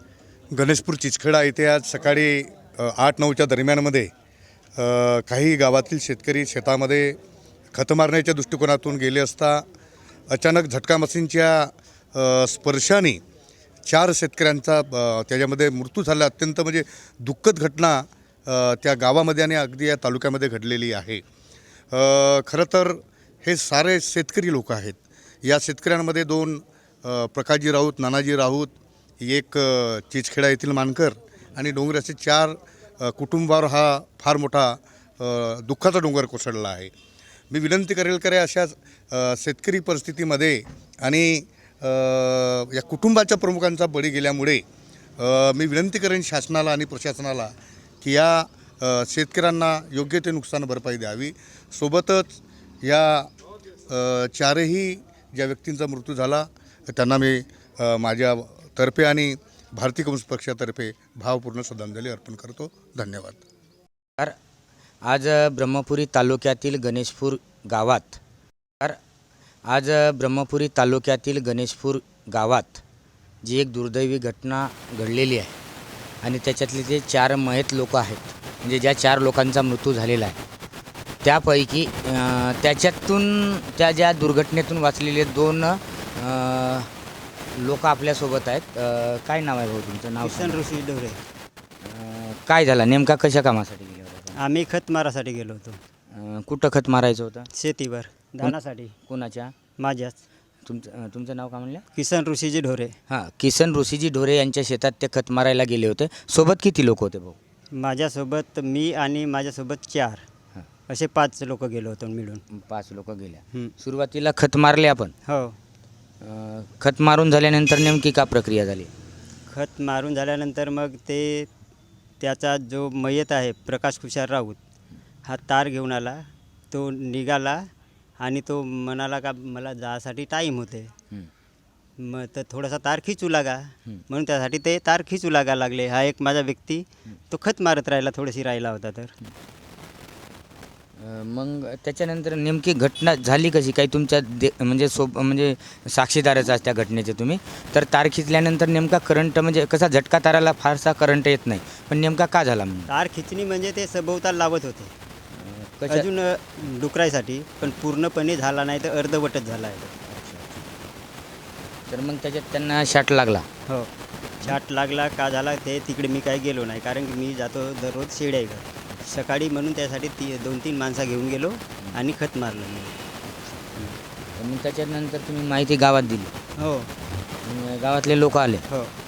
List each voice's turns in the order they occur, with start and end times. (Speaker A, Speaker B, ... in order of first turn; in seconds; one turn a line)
Speaker A: 0.5-4.1
Speaker A: 4.8-7.2
Speaker A: 7.7-9.6
Speaker A: 10.3-13.2
Speaker A: 13.9-21.2
Speaker A: 21.9-36.9
Speaker A: 37.5-44.6
Speaker A: 45.2-53.3
Speaker A: 53.9-63.4
Speaker B: 65.0-68.2
Speaker B: 69.7-72.8
Speaker B: 73.4-75.6
Speaker B: 76.2-80.4
Speaker B: 81.2-86.9
Speaker B: 87.5-90.7
Speaker C: 90.2-91.2
Speaker B: 91.8-94.4
Speaker C: 94.5-95.8
Speaker B: 96.1-97.5
Speaker C: 97.6-98.9
Speaker B: 98.4-99.5
Speaker C: 99.8-100.1
Speaker B: 100.7-101.8
Speaker C: 102.0-103.0
Speaker B: 103.1-107.4
Speaker C: 107.8-110.2
Speaker C: 110.9-112.4
Speaker B: 112.5-115.1
Speaker B: 116.2-118.9
Speaker C: 119.5-121.5
Speaker C: 122.2-124.6
Speaker C: 125.3-126.2
Speaker C: 126.7-127.7
Speaker C: 128.2-130.9
Speaker C: 132.0-139.1
Speaker B: 141.0-152.9
Speaker C: 153.0-154.9
Speaker B: 155.3-156.1
Speaker C: 155.9-159.9
Speaker B: 160.1-160.7
Speaker B: 161.9-163.5
Speaker C: 164.5-173.0
Speaker B: 174.4-176.3
Speaker B: 177.4-178.6